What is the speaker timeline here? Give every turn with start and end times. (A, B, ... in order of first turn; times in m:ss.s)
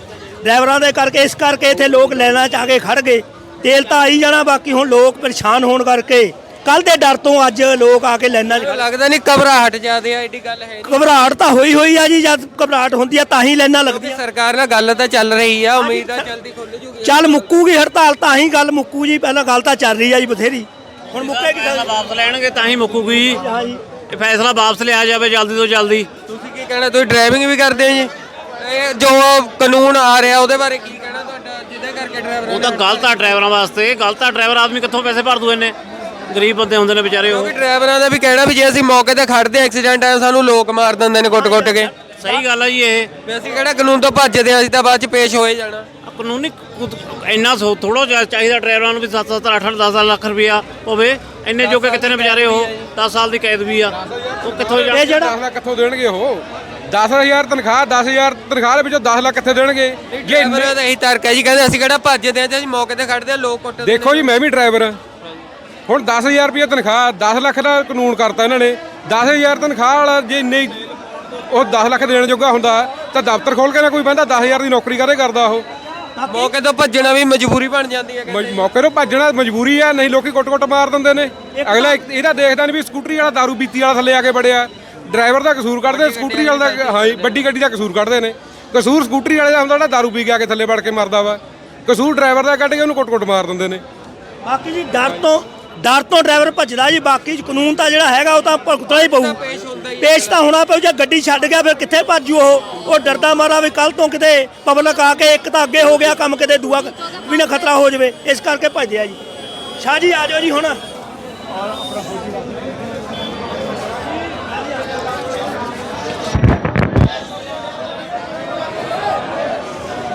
0:00.4-0:08.8 A
0:08.6-0:11.2 B
0:10.8-0:14.2 A
0:13.9-0:17.5 B
0:15.8-0:16.2 A
0:17.0-0:21.9 A
0:21.1-0:23.4 C
0:23.4-0:23.8 A
0:24.1-0:26.1 C
0:26.3-0:33.1 B
0:32.5-0:35.7 C
0:36.3-0:37.6 C
0:37.3-0:41.9 B
0:42.0-0:43.1 C
0:43.2-0:45.9 B
0:46.0-0:55.1 C
0:51.6-0:52.9 B
0:54.4-1:00.7 D
0:54.9-0:55.3 A
1:00.1-1:04.3 B
1:03.8-1:05.0 D
1:05.9-1:10.8 D
1:11.5-1:15.6 D
1:16.2-1:16.5 A
1:16.3-1:18.6 B
1:18.3-1:33.8 D
1:21.6-1:22.0 A
1:25.9-1:27.4 B
1:34.4-1:39.4 A
1:38.9-1:40.4 B
1:40.0-1:49.2 A
1:49.8-1:50.8 A